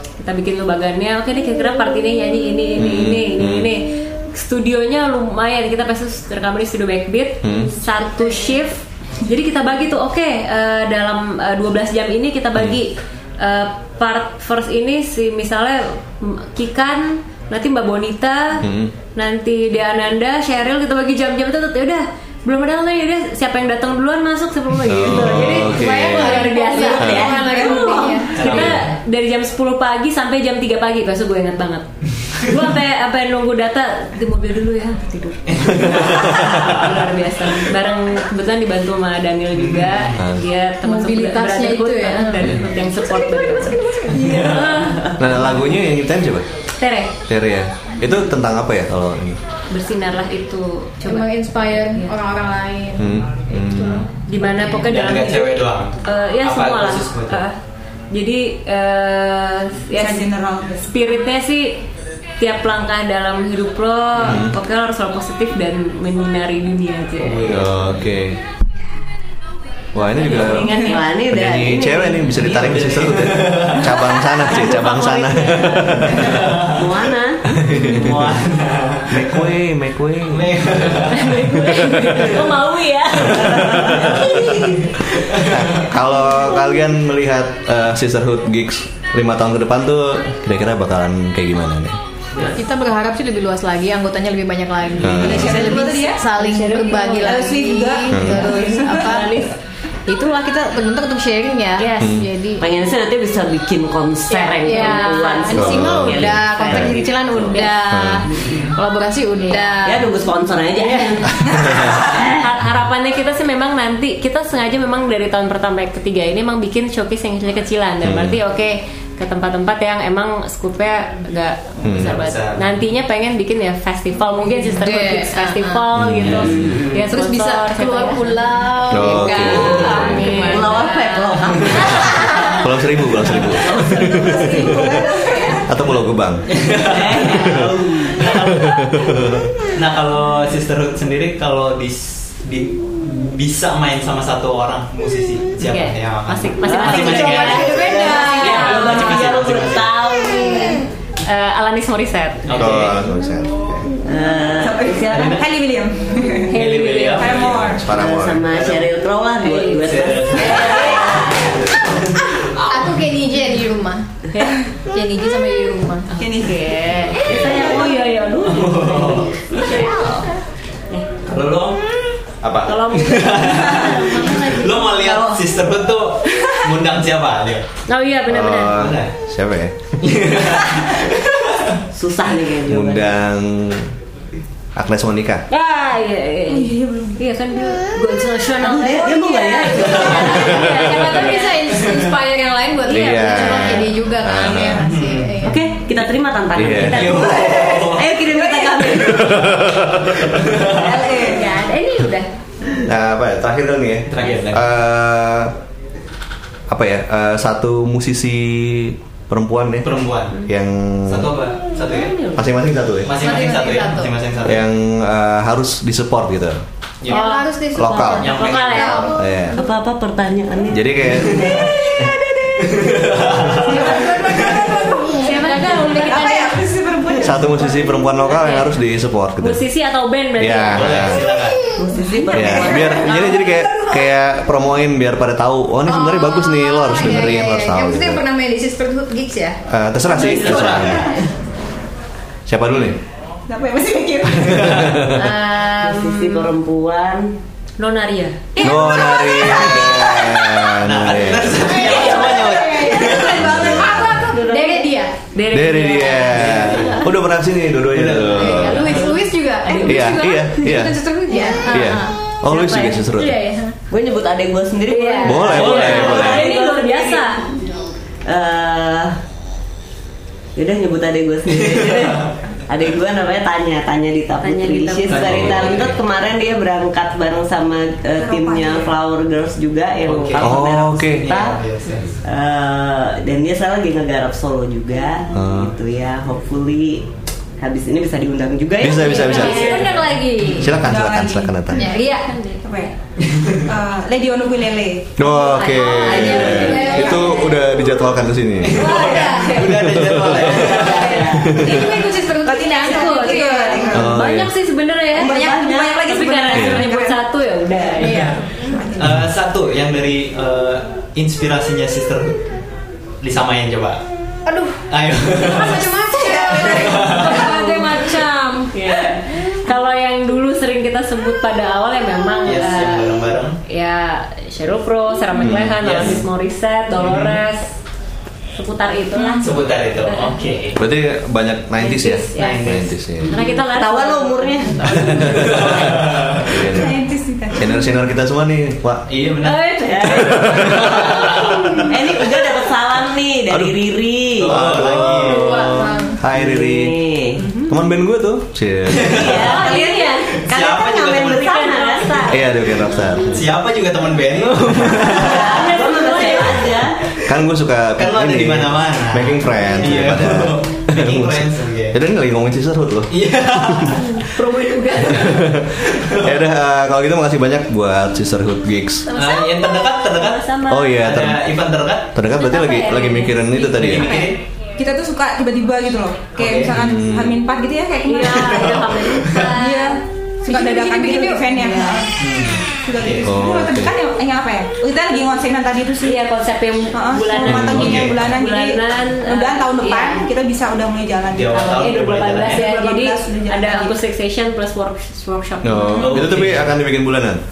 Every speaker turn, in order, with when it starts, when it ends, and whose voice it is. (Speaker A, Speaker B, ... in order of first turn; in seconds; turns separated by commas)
Speaker A: 0.2-31.9, Speaker B: 2.8-3.7, Speaker B: 7.4-7.8, Speaker B: 18.6-18.9, Speaker B: 24.9-27.3, Speaker C: 25.6-28.6, Speaker D: 27.0-27.5, Speaker E: 27.3-28.2, Speaker F: 28.3-28.9, Speaker B: 28.4-28.8, Speaker A: 32.4-45.1, Speaker F: 35.5-36.7, Speaker F: 39.5-40.2, Speaker B: 40.2-40.5, Speaker C: 40.8-42.5, Speaker C: 43.5-44.3, Speaker E: 44.0-45.1, Speaker B: 45.2-46.5, Speaker A: 46.8-47.1, Speaker B: 47.3-49.4, Speaker A: 49.7-52.1, Speaker C: 51.0-54.1, Speaker B: 53.0-54.1, Speaker A: 54.3-57.6, Speaker F: 54.6-57.4, Speaker A: 58.1-60.3, Speaker E: 59.9-60.9, Speaker A: 60.8-61.8, Speaker A: 62.4-67.6, Speaker B: 64.2-64.6, Speaker F: 67.2-68.0, Speaker B: 67.4-68.4, Speaker B: 69.9-70.8, Speaker A: 70.0-71.2, Speaker E: 70.7-71.0, Speaker D: 70.8-72.3, Speaker B: 71.3-76.6, Speaker F: 72.4-74.1, Speaker A: 74.0-76.3, Speaker F: 76.0-76.8, Speaker D: 76.6-77.5, Speaker B: 77.5-78.4, Speaker F: 77.7-79.5, Speaker B: 79.1-82.4, Speaker F: 80.3-81.4, Speaker A: 81.1-84.8, Speaker F: 82.0-82.5, Speaker B: 83.2-92.0, Speaker D: 83.7-84.1, Speaker F: 84.8-85.9, Speaker C: 92.5-99.5, Speaker B: 95.0-95.6, Speaker E: 95.1-96.3, Speaker A: 96.3-97.5, Speaker E: 97.2-99.0, Speaker A: 98.1-99.5, Speaker B: 98.1-98.5, Speaker C: 100.1-102.6, Speaker A: 101.8-102.2, Speaker B: 102.0-102.3, Speaker D: 102.6-107.6, Speaker A: 104.4-105.6, Speaker C: 104.4-110.2, Speaker B: 105.5-107.0, Speaker A: 107.3-107.7, Speaker B: 107.9-108.3, Speaker F: 108.4-108.8, Speaker A: 109.5-109.7, Speaker D: 109.8-112.5, Speaker A: 110.7-128.4, Speaker B: 111.4-112.0, Speaker E: 111.6-112.3, Speaker B: 118.0-118.4, Speaker B: 121.8-122.2, Speaker F: 121.9-122.8, Speaker C: 124.4-125.9, Speaker B: 126.0-126.8, Speaker D: 126.4-127.1, Speaker C: 127.1-130.9, Speaker B: 128.9-130.3, Speaker A: 128.9-132.1, Speaker D: 129.9-132.3, Speaker C: 132.0-132.7, Speaker B: 132.1-135.0, Speaker D: 133.4-134.9, Speaker E: 133.8-135.6, Speaker B: 135.7-136.5, Speaker F: 136.5-149.9, Speaker D: 136.8-138.2, Speaker B: 137.3-139.5, Speaker A: 145.6-152.5, Speaker D: 146.6-150.9, Speaker C: 147.0-148.9, Speaker F: 152.5-153.0, Speaker B: 152.5-153.9, Speaker D: 154.1-155.4, Speaker E: 154.5-156.6, Speaker F: 155.1-155.4, Speaker A: 156.5-157.5, Speaker F: 156.5-157.8, Speaker E: 157.2-157.9, Speaker B: 157.3-158.7, Speaker D: 157.9-161.5, Speaker F: 158.5-158.9, Speaker A: 159.4-161.3, Speaker F: 159.8-161.0, Speaker B: 160.8-162.1, Speaker F: 161.8-163.0, Speaker C: 162.7-164.1, Speaker A: 164.3-164.6, Speaker C: 164.8-166.1, Speaker A: 166.1-170.4, Speaker E: 166.2-166.7, Speaker B: 167.2-167.7, Speaker F: 167.6-167.9, Speaker F: 168.4-169.8, Speaker A: 170.9-171.2, Speaker F: 171.2-171.8, Speaker B: 172.4-172.8, Speaker A: 172.7-175.2, Speaker F: 172.8-177.7, Speaker A: 177.9-178.8, Speaker B: 178.3-180.1, Speaker F: 178.8-179.1, Speaker F: 180.0-181.8, Speaker D: 181.9-183.2, Speaker B: 182.7-183.9, Speaker B: 184.8-185.4, Speaker A: 185.5-191.7, Speaker E: 186.5-187.2, Speaker D: 188.6-190.8, Speaker C: 189.8-195.7, Speaker B: 190.4-190.8, Speaker F: 191.7-192.1, Speaker A: 192.9-193.9, Speaker B: 192.9-194.9, Speaker F: 194.8-195.4, Speaker D: 195.4-199.6, Speaker B: 196.6-197.3, Speaker F: 196.7-198.2, Speaker E: 198.3-199.3, Speaker B: 199.0-200.7, Speaker F: 200.2-200.9, Speaker E: 200.7-201.5, Speaker A: 200.8-202.3, Speaker B: 202.8-205.5, Speaker F: 204.1-204.7, Speaker B: 206.7-211.3, Speaker F: 209.8-210.4, Speaker F: 211.1-212.2, Speaker A: 211.8-212.4, Speaker B: 212.3-213.2, Speaker F: 213.0-214.6, Speaker C: 213.2-214.1, Speaker B: 214.4-216.6, Speaker F: 217.0-217.3, Speaker A: 217.1-219.2, Speaker C: 217.1-219.6, Speaker B: 217.7-218.4, Speaker F: 218.1-219.3, Speaker B: 219.2-219.6, Speaker D: 219.5-221.7, Speaker B: 220.7-221.9, Speaker F: 221.2-221.7, Speaker F: 222.6-224.9, Speaker A: 223.6-224.2, Speaker C: 223.6-226.2, Speaker E: 223.7-225.1, Speaker A: 225.1-226.7, Speaker E: 225.7-228.1, Speaker B: 227.2-229.7, Speaker A: 228.3-228.7, Speaker A: 229.4-231.0, Speaker B: 230.4-231.3, Speaker F: 230.7-231.7, Speaker D: 231.8-233.4, Speaker E: 231.9-233.7, Speaker B: 232.3-238.2, Speaker C: 235.8-239.6, Speaker B: 239.7-241.2, Speaker F: 240.1-241.3, Speaker E: 240.1-241.2, Speaker B: 242.5-243.0, Speaker E: 243.5-245.0, Speaker B: 244.4-245.3, Speaker F: 244.5-245.0, Speaker A: 245.0-246.5, Speaker D: 245.8-247.3, Speaker A: 247.8-248.7, Speaker E: 248.6-250.7, Speaker B: 248.6-252.0, Speaker F: 250.8-253.5, Speaker C: 251.7-255.1, Speaker E: 251.9-254.4, Speaker B: 253.2-254.2, Speaker A: 254.3-256.9, Speaker B: 255.5-259.1, Speaker F: 256.3-257.1, Speaker F: 257.9-259.1, Speaker C: 258.4-262.1, Speaker A: 258.5-260.5, Speaker B: 259.8-261.0, Speaker A: 261.3-263.6, Speaker B: 261.7-263.4, Speaker C: 263.4-263.8, Speaker D: 263.9-267.3, Speaker A: 264.9-267.4, Speaker B: 265.2-266.5, Speaker F: 265.5-266.5, Speaker D: 268.3-269.2, Speaker D: 270.6-281.6, Speaker F: 271.6-272.3, Speaker A: 274.4-275.9, Speaker F: 275.1-275.9, Speaker B: 275.2-275.9, Speaker E: 278.2-279.0, Speaker F: 280.1-282.1, Speaker B: 280.4-281.3, Speaker D: 282.2-287.1, Speaker B: 285.3-285.7, Speaker D: 287.6-289.6, Speaker B: 288.8-289.9, Speaker A: 288.9-290.7, Speaker F: 289.3-290.1, Speaker B: 290.5-291.9, Speaker E: 290.7-291.8, Speaker C: 291.7-292.3, Speaker A: 291.8-292.6, Speaker E: 292.6-292.9, Speaker F: 293.2-293.7, Speaker E: 293.6-295.1, Speaker B: 295.2-299.0, Speaker C: 295.2-298.1, Speaker D: 296.0-297.2, Speaker A: 296.6-297.2, Speaker F: 298.6-301.3, Speaker C: 298.8-299.6, Speaker A: 298.8-299.8, Speaker B: 299.6-300.8, Speaker D: 300.6-301.6, Speaker C: 300.6-304.0, Speaker B: 301.4-302.0, Speaker E: 302.4-304.2, Speaker A: 302.9-305.4, Speaker B: 303.9-304.5, Speaker D: 305.1-306.8, Speaker E: 305.2-307.2, Speaker A: 306.0-308.3, Speaker B: 306.5-306.8, Speaker E: 307.8-309.1, Speaker C: 308.0-308.4, Speaker F: 308.1-308.4, Speaker F: 309.0-312.4, Speaker F: 313.2-314.0, Speaker C: 314.5-318.8, Speaker F: 314.9-315.9, Speaker E: 316.1-317.6, Speaker F: 316.6-317.4, Speaker A: 317.2-318.1, Speaker A: 318.7-327.7, Speaker F: 322.4-323.6, Speaker B: 325.4-326.2, Speaker F: 325.4-326.2, Speaker F: 327.0-327.4, Speaker A: 328.6-330.5, Speaker E: 329.1-329.5, Speaker F: 329.3-330.8, Speaker B: 330.8-333.3, Speaker A: 331.8-335.9, Speaker F: 332.4-332.9, Speaker D: 333.3-335.2, Speaker B: 334.9-337.0, Speaker F: 335.4-336.7, Speaker E: 336.6-337.9, Speaker B: 337.6-339.1, Speaker F: 339.1-340.1, Speaker A: 339.4-341.9, Speaker D: 339.9-340.4, Speaker B: 340.3-340.9, Speaker F: 340.6-341.9, Speaker D: 341.9-344.9, Speaker B: 343.5-343.8, Speaker F: 344.4-345.8, Speaker B: 344.4-347.0, Speaker C: 345.0-346.2, Speaker D: 346.3-347.4, Speaker B: 347.7-349.4, Speaker F: 348.9-349.6, Speaker D: 349.0-352.3, Speaker A: 349.4-350.4, Speaker F: 350.4-352.1, Speaker A: 351.3-353.2, Speaker B: 352.3-353.5, Speaker F: 353.3-355.6, Speaker B: 354.3-355.3, Speaker D: 355.1-357.0, Speaker A: 355.4-356.8, Speaker B: 357.2-364.0, Speaker F: 358.0-362.0, Speaker F: 363.1-364.1, Speaker A: 363.9-365.6, Speaker B: 365.0-369.1, Speaker F: 365.8-366.5, Speaker A: 369.1-371.0, Speaker F: 369.1-372.1, Speaker B: 370.7-371.4, Speaker B: 372.1-374.2, Speaker A: 372.3-373.9, Speaker F: 373.6-374.4, Speaker E: 374.0-378.9, Speaker F: 376.4-376.7, Speaker B: 376.7-377.4, Speaker A: 378.1-380.0, Speaker F: 378.4-379.6, Speaker E: 379.4-386.2, Speaker C: 380.5-382.0, Speaker A: 381.6-382.0, Speaker F: 382.2-383.4, Speaker B: 383.2-384.0, Speaker A: 386.0-390.3, Speaker E: 386.9-394.0, Speaker B: 387.4-388.1, Speaker F: 387.7-388.1, Speaker F: 391.3-392.7, Speaker A: 391.5-396.3, Speaker B: 395.6-397.4, Speaker F: 395.9-396.8